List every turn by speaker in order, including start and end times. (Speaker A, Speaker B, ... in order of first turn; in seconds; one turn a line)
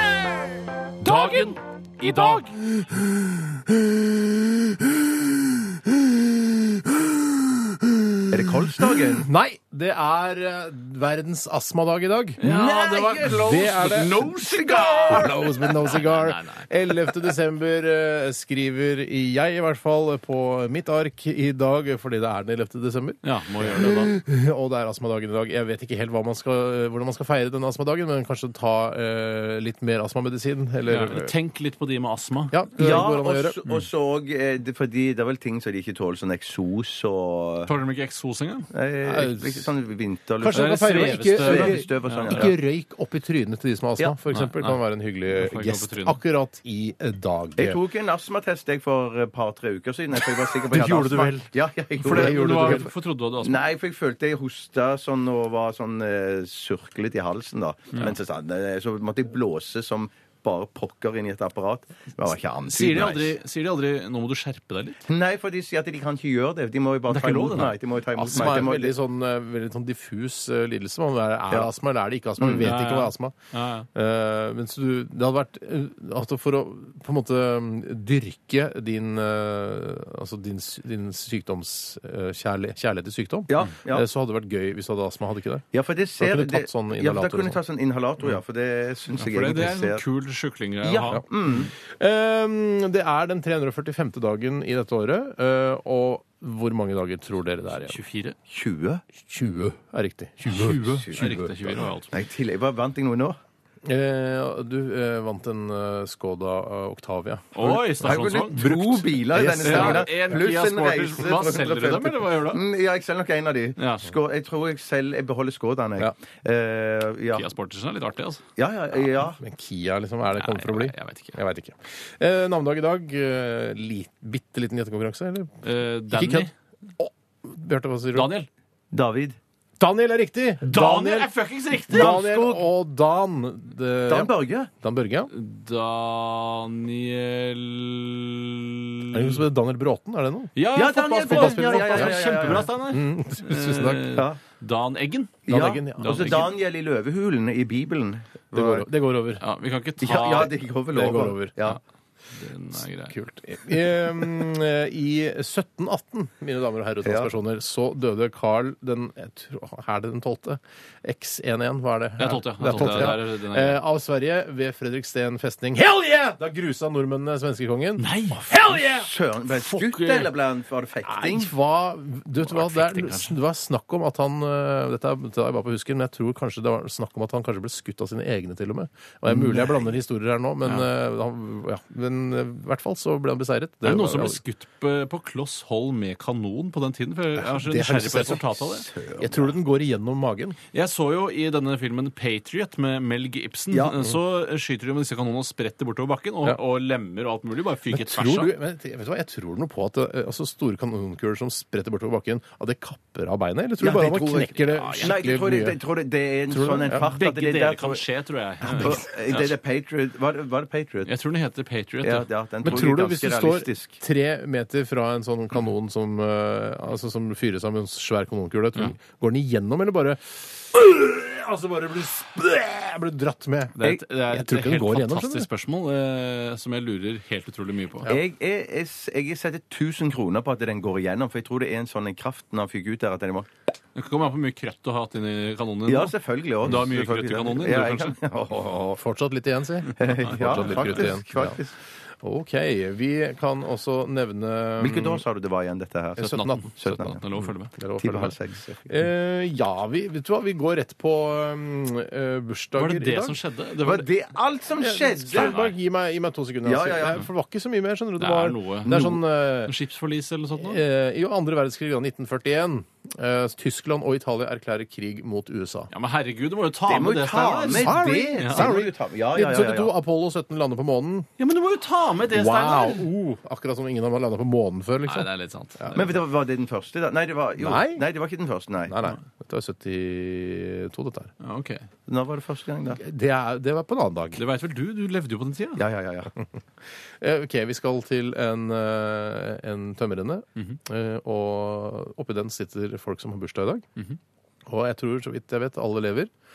Speaker A: 1.0-2.5
Speaker B: 2.0-12.4
Speaker C: 8.3-9.3
Speaker A: 12.4-16.7
Speaker C: 12.4-15.3
Speaker B: 13.2-31.3
Speaker A: 23.2-24.1
Speaker A: 30.9-32.6
Speaker B: 32.5-33.6
Speaker C: 32.8-37.7
Speaker A: 37.6-38.7
Speaker C: 38.7-42.5
Speaker B: 39.0-39.7
Speaker B: 40.4-47.8
Speaker A: 40.5-42.5
Speaker A: 44.3-46.2
Speaker C: 47.6-52.9
Speaker B: 50.7-52.9
Speaker A: 52.0-53.6
Speaker C: 53.4-63.3
Speaker A: 62.6-65.0
Speaker C: 65.1-68.9
Speaker A: 67.1-67.8
Speaker B: 68.1-73.3
Speaker C: 72.4-72.7
Speaker A: 72.6-73.9
Speaker B: 73.9-85.7
Speaker C: 83.5-84.0
Speaker C: 85.7-90.0
Speaker B: 86.2-87.6
Speaker A: 89.2-91.7
Speaker C: 90.8-91.7
Speaker B: 91.1-98.0
Speaker A: 97.8-98.3
Speaker C: 98.5-99.0
Speaker B: 99.2-101.8
Speaker A: 100.5-102.1
Speaker C: 102.1-103.4
Speaker B: 103.8-107.8
Speaker A: 107.5-112.6
Speaker C: 107.6-117.4
Speaker B: 108.6-110.4
Speaker A: 113.8-114.1
Speaker A: 117.3-118.4
Speaker C: 118.6-119.4
Speaker B: 119.4-128.3
Speaker A: 120.4-121.4
Speaker A: 125.6-126.5
Speaker A: 128.1-128.5
Speaker C: 128.9-129.4
Speaker B: 129.8-131.3
Speaker A: 130.6-132.2
Speaker B: 131.9-135.3
Speaker C: 131.9-132.6
Speaker C: 134.1-134.7
Speaker A: 135.3-139.4
Speaker B: 139.1-144.1
Speaker A: 140.6-146.5
Speaker C: 140.7-142.7
Speaker C: 144.1-144.4
Speaker C: 145.4-148.8
Speaker B: 145.5-146.5
Speaker B: 148.5-149.4
Speaker A: 149.4-150.5
Speaker C: 150.0-151.8
Speaker B: 150.9-151.5
Speaker A: 152.3-153.1
Speaker B: 152.8-169.1
Speaker C: 157.0-157.3
Speaker A: 162.2-163.8
Speaker A: 168.0-168.4
Speaker C: 168.5-171.5
Speaker A: 169.5-170.3
Speaker B: 171.0-184.4
Speaker A: 172.4-173.4
Speaker C: 179.3-179.8
Speaker A: 183.8-188.9
Speaker B: 187.4-188.4
Speaker C: 188.8-189.5
Speaker B: 189.2-190.6
Speaker A: 190.7-198.5
Speaker C: 193.7-193.9
Speaker B: 197.9-205.8
Speaker C: 203.8-208.0
Speaker A: 204.5-205.2
Speaker B: 206.5-207.1
Speaker A: 207.0-209.5
Speaker C: 208.7-211.1
Speaker A: 211.0-212.3
Speaker C: 212.0-214.0
Speaker B: 212.6-225.5
Speaker A: 223.8-228.1
Speaker C: 228.1-233.5
Speaker A: 233.9-238.2
Speaker C: 235.9-239.0
Speaker B: 238.9-241.6
Speaker C: 240.0-241.7
Speaker A: 240.0-241.1
Speaker B: 242.2-245.2
Speaker C: 244.8-247.2
Speaker B: 246.2-246.7
Speaker A: 246.2-247.7
Speaker B: 247.7-253.4
Speaker C: 248.0-248.9
Speaker A: 252.8-254.1
Speaker C: 253.8-255.6
Speaker B: 254.8-259.7
Speaker A: 255.3-255.8
Speaker C: 256.6-257.2
Speaker A: 258.2-259.1
Speaker C: 258.9-259.2
Speaker A: 259.6-260.8
Speaker B: 260.6-265.9
Speaker A: 265.9-268.8
Speaker C: 266.9-269.9
Speaker B: 267.7-271.3
Speaker A: 271.4-273.1
Speaker B: 272.3-275.3
Speaker A: 275.1-276.1
Speaker C: 275.9-279.0
Speaker B: 277.6-278.0
Speaker B: 278.9-281.3
Speaker A: 281.4-281.8
Speaker C: 282.1-283.0
Speaker B: 283.0-284.4
Speaker A: 284.4-285.8
Speaker C: 285.8-286.3
Speaker B: 287.2-293.9
Speaker B: 294.7-296.3